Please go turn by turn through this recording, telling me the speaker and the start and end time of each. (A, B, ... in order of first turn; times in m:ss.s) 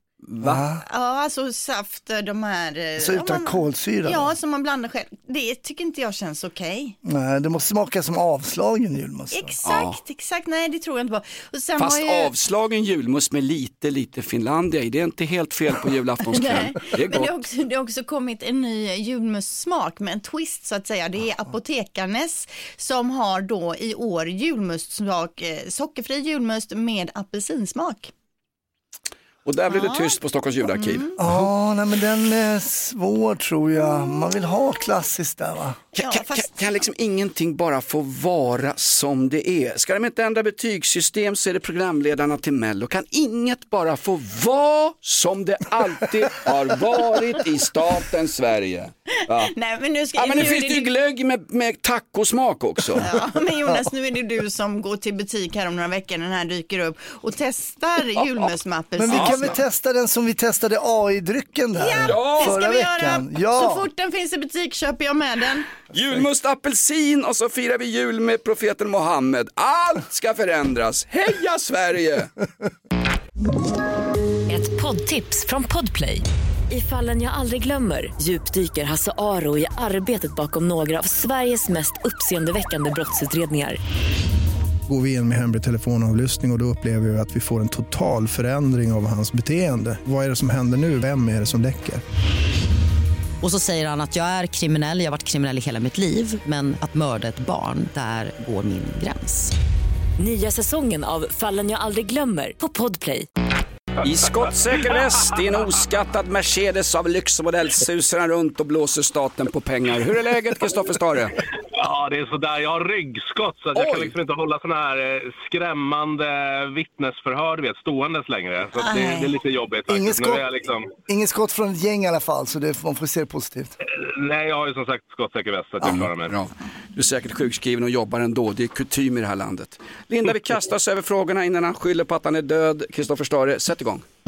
0:00.3-0:00.6 A
0:00.4-0:00.8 B
0:00.8-0:07.0 C
0:03.0-0:04.3 B
0:07.0-0:09.5 B
0:09.3-0:12.3 C
0:09.6-0:10.0 A
0:11.8-0:17.4 A
0:16.4-0:28.1 C
0:29.4-0:31.5 A
0:29.7-0:30.2 C
0:30.7-0:31.1 C
0:31.2-0:35.8 B
0:35.9-0:49.5 A
0:36.0-0:36.5 C
0:49.4-0:50.9 C
0:50.2-0:53.1 A
0:53.0-0:59.5 C
0:59.0-1:03.9 B
0:59.1-0:59.6 A
1:01.8-1:05.7 C
1:02.0-1:02.6 A
1:05.9-1:12.3 A
1:14.5-1:23.8 D
1:24.9-1:32.0 E
1:33.4-1:39.5 F
1:40.2-1:43.3 D
1:44.0-1:51.4 A
1:51.7-2:00.9 G
1:53.7-1:54.1 A
1:58.8-1:59.3 C
1:59.9-2:00.4 B
2:01.1-2:03.7 B
2:03.8-2:06.4 G
2:05.8-2:14.0 A